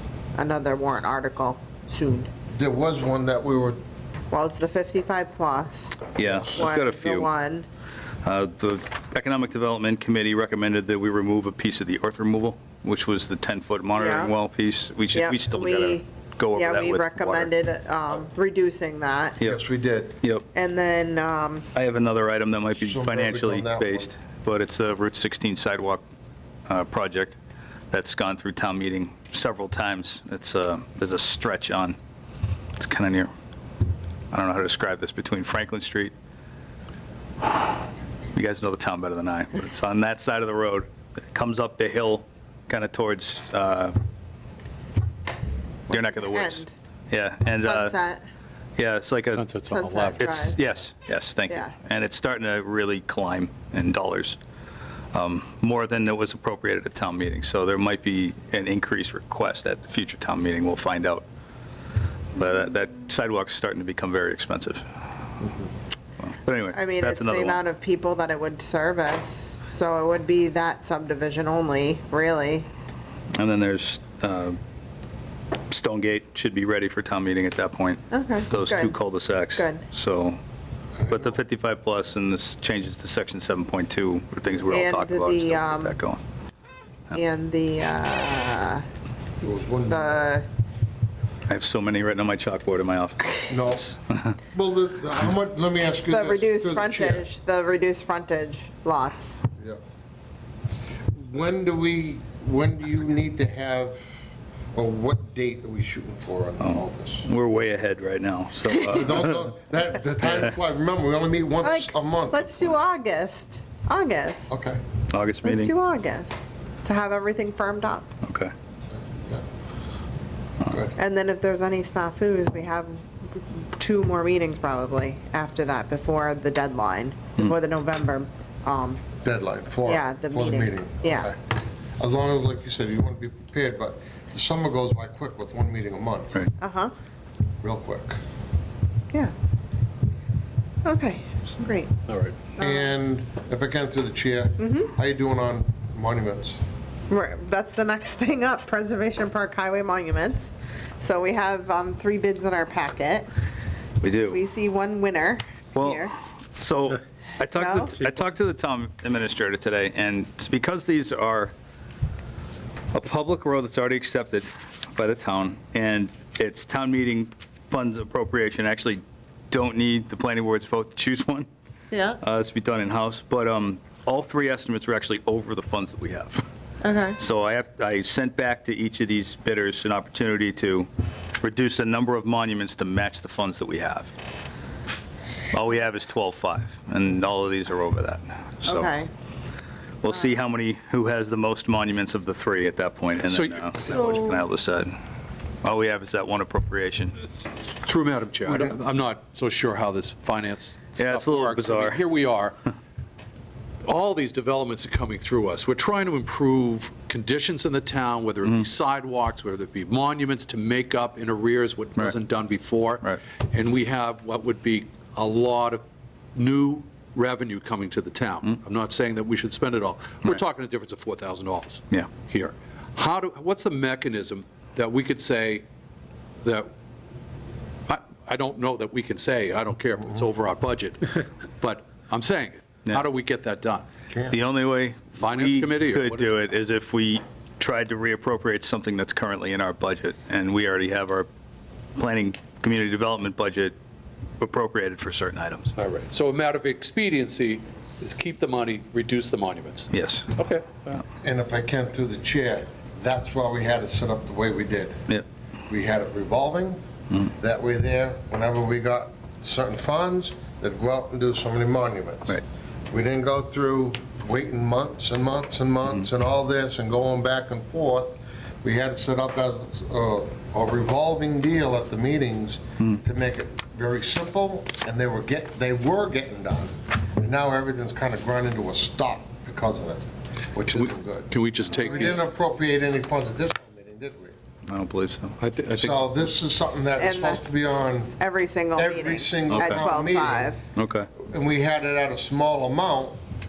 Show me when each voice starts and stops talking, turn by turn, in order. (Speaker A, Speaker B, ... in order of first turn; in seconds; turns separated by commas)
Speaker A: 0.3-2.3, Speaker B: 2.5-3.8, Speaker A: 4.3-7.7, Speaker C: 6.2-7.3, Speaker C: 8.2-17.5, Speaker A: 14.0-14.3, Speaker A: 15.1-19.4, Speaker B: 19.4-20.2, Speaker A: 20.5-21.7, Speaker C: 21.8-26.0, Speaker B: 22.8-24.1, Speaker C: 26.7-27.4, Speaker C: 27.9-32.0, Speaker C: 32.8-33.3, Speaker C: 34.3-36.1, Speaker C: 37.4-37.7, Speaker C: 38.3-44.0, Speaker C: 45.9-48.0, Speaker A: 46.0-46.7, Speaker A: 47.6-48.2, Speaker C: 48.8-49.5, Speaker D: 49.3-50.5, Speaker A: 49.6-50.6, Speaker C: 50.2-54.4, Speaker A: 51.5-51.8, Speaker C: 55.1-61.2, Speaker C: 62.4-64.8, Speaker C: 66.2-67.6, Speaker A: 66.7-72.7, Speaker C: 73.4-74.6, Speaker C: 75.7-80.4, Speaker A: 78.1-79.0, Speaker A: 79.5-79.8, Speaker B: 81.0-81.3, Speaker C: 81.1-86.2, Speaker A: 84.7-86.0, Speaker A: 87.1-88.8, Speaker B: 89.4-90.2, Speaker A: 89.9-90.5, Speaker C: 91.5-94.3, Speaker B: 93.5-93.9, Speaker B: 94.5-97.3, Speaker A: 96.1-99.4, Speaker B: 101.1-104.1, Speaker B: 104.8-107.3, Speaker C: 106.6-109.4, Speaker B: 108.8-112.7, Speaker A: 111.6-114.6, Speaker B: 114.5-114.8, Speaker C: 115.1-115.7, Speaker A: 115.4-118.1, Speaker C: 118.2-118.5, Speaker B: 119.0-119.4, Speaker B: 120.7-120.9, Speaker A: 121.0-129.0, Speaker B: 129.2-131.4, Speaker A: 129.9-131.3, Speaker B: 132.0-136.4, Speaker A: 136.6-136.9, Speaker B: 137.6-138.2, Speaker A: 140.8-141.9, Speaker D: 142.1-142.3, Speaker A: 142.6-142.9, Speaker B: 142.6-146.6, Speaker A: 144.6-144.9, Speaker A: 147.1-153.3, Speaker C: 154.0-154.4, Speaker A: 154.3-156.1, Speaker C: 155.8-161.5, Speaker A: 157.5-158.1, Speaker C: 162.9-171.5, Speaker A: 171.9-172.2, Speaker C: 172.2-176.4, Speaker A: 176.8-177.2, Speaker C: 177.2-180.9, Speaker C: 181.4-184.1, Speaker C: 185.5-188.9, Speaker A: 188.7-189.1, Speaker C: 190.0-194.9, Speaker D: 193.2-194.1, Speaker C: 195.6-197.2, Speaker D: 197.8-202.6, Speaker C: 201.0-202.0, Speaker D: 203.8-215.8, Speaker D: 216.3-225.7, Speaker D: 226.4-226.7, Speaker D: 227.9-233.9, Speaker B: 234.1-234.4, Speaker C: 234.3-241.3, Speaker D: 235.2-236.4, Speaker C: 242.0-243.7, Speaker C: 244.4-245.7, Speaker D: 245.8-251.0, Speaker C: 249.9-250.3, Speaker B: 251.2-255.1, Speaker B: 255.7-256.8, Speaker B: 257.3-284.4, Speaker D: 280.7-282.3, Speaker C: 284.7-285.4, Speaker D: 285.4-286.0, Speaker B: 285.8-288.2, Speaker A: 287.0-287.4, Speaker A: 288.2-290.6, Speaker B: 288.8-290.5, Speaker C: 289.5-289.8, Speaker C: 290.8-291.1, Speaker B: 291.2-293.2